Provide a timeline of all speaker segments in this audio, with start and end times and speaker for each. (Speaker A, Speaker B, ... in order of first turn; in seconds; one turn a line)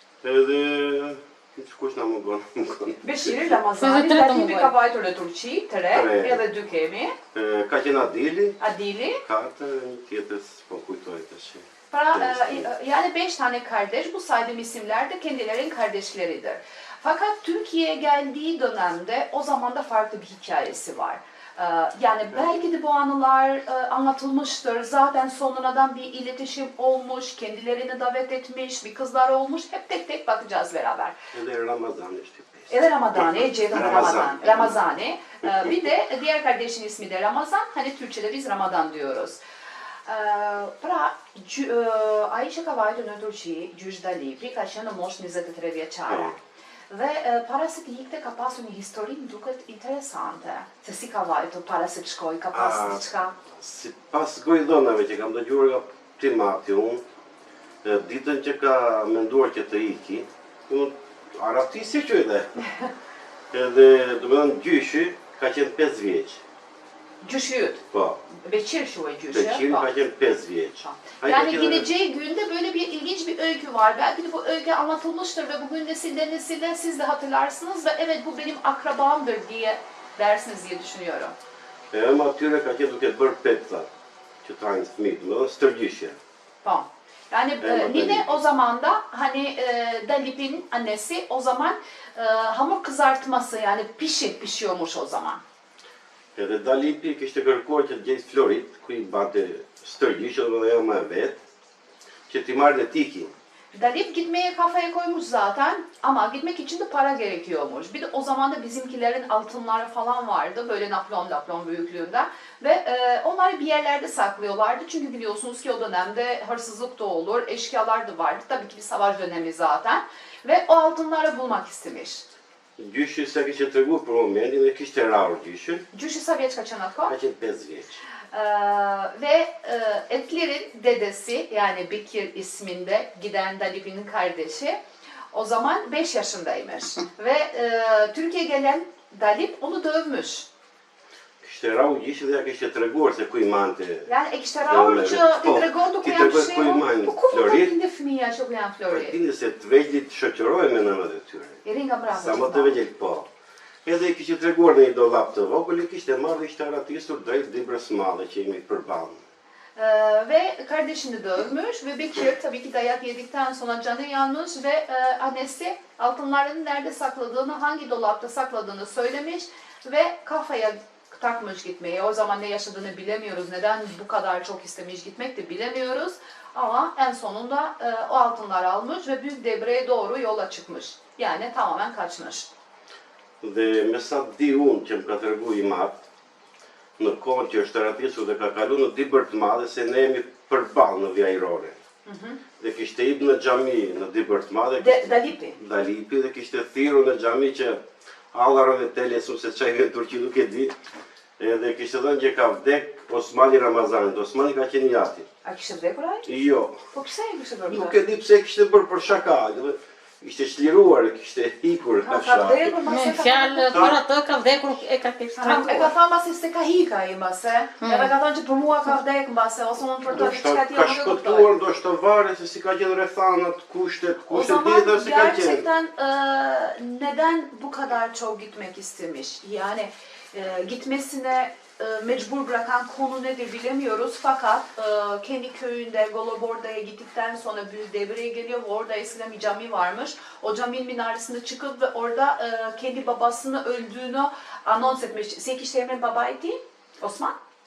Speaker A: 0.2-3.6
Speaker B: 3.0-7.2
Speaker C: 3.8-4.7
Speaker A: 5.9-6.5
Speaker A: 7.3-8.6
Speaker B: 8.6-9.2
Speaker A: 9.2-12.7
Speaker B: 11.9-31.1
Speaker A: 31.3-34.8
Speaker B: 32.7-39.4
Speaker B: 40.0-46.3
Speaker A: 46.1-46.4
Speaker B: 46.9-53.4
Speaker A: 52.5-57.0
Speaker A: 57.8-62.6
Speaker A: 63.5-66.4
Speaker B: 67.2-67.8
Speaker A: 67.9-68.2
Speaker B: 68.4-69.9
Speaker A: 69.3-71.9
Speaker B: 70.8-81.3
Speaker A: 81.9-83.9
Speaker A: 84.4-86.2
Speaker B: 86.6-95.4
Speaker A: 87.6-88.4
Speaker A: 96.3-101.4
Speaker A: 102.3-103.3
Speaker B: 103.7-122.2
Speaker A: 122.8-125.9
Speaker B: 125.9-127.1
Speaker A: 127.0-128.0
Speaker B: 128.3-134.8
Speaker B: 135.3-140.5
Speaker A: 141.4-144.1
Speaker B: 144.1-149.2
Speaker A: 144.6-147.7
Speaker A: 148.9-153.3
Speaker B: 151.6-152.8
Speaker A: 153.8-159.2
Speaker B: 159.8-182.5
Speaker A: 183.4-186.0
Speaker A: 187.0-191.8
Speaker B: 192.1-192.4
Speaker A: 192.6-197.8
Speaker B: 194.8-195.6
Speaker A: 198.3-200.7
Speaker A: 201.4-205.3
Speaker B: 205.4-206.3
Speaker A: 206.2-206.8
Speaker B: 206.9-207.9
Speaker A: 207.7-212.8
Speaker B: 212.0-214.0
Speaker C: 212.9-215.9
Speaker A: 213.7-214.0
Speaker B: 215.4-221.5
Speaker C: 217.8-218.1
Speaker A: 220.1-225.7
Speaker B: 224.3-247.3